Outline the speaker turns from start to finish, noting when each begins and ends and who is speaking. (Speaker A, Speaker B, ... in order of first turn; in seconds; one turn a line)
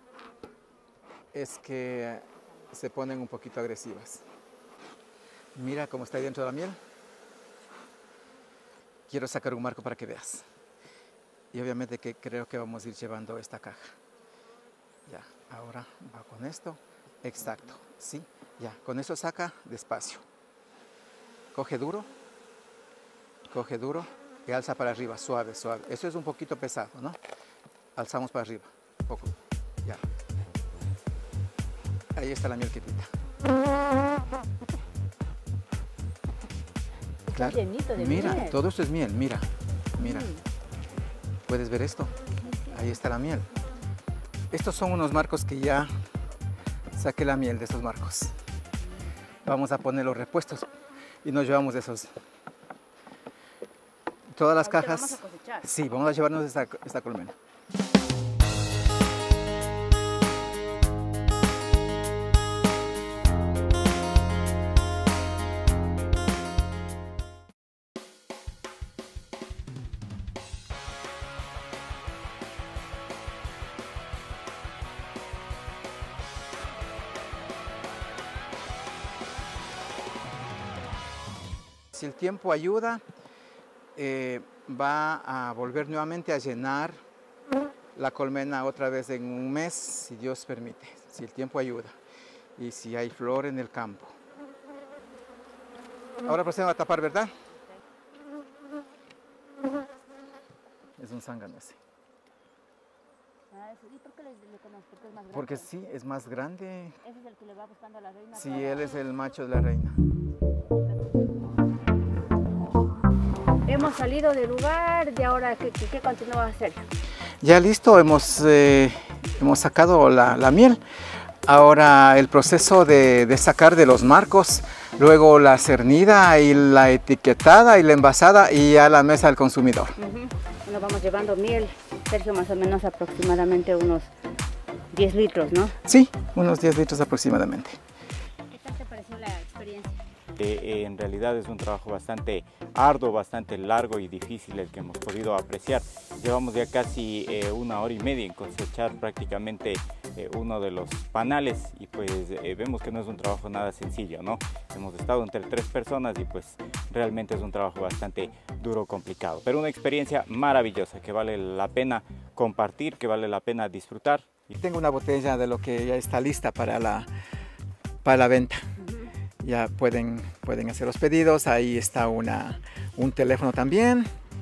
Speaker A: 1.3-4.2
Speaker A: 5.5-6.8
Speaker A: 9.1-10.4
Speaker A: 11.5-13.9
Speaker A: 15.1-20.2
Speaker A: 21.5-22.1
Speaker A: 23.5-27.2
Speaker A: 27.9-30.0
Speaker A: 32.1-33.1
Speaker B: 37.3-38.6
Speaker A: 37.3-40.3
Speaker B: 40.0-40.4
Speaker A: 41.5-42.1
Speaker A: 42.7-43.5
Speaker A: 44.5-45.9
Speaker A: 46.9-48.3
Speaker A: 49.4-50.7
Speaker A: 51.2-52.1
Speaker A: 54.3-57.3
Speaker B: 54.6-55.6
Speaker A: 81.9-83.0
Speaker A: 84.0-87.0
Speaker A: 88.0-91.9
Speaker A: 92.6-94.2
Speaker A: 96.2-97.3
Speaker A: 101.0-101.8
Speaker B: 103.5-105.6
Speaker A: 105.3-107.0
Speaker B: 107.0-108.9
Speaker A: 108.3-110.0
Speaker B: 113.7-116.8
Speaker A: 117.4-120.8
Speaker A: 121.5-130.0
Speaker B: 130.0-134.1
Speaker B: 134.9-135.7
Speaker A: 135.8-137.8
Speaker B: 138.5-140.0
Speaker C: 140.4-164.5
Speaker A: 164.5-167.1
Speaker A: 168.0-168.6
Speaker A: 169.4-174.1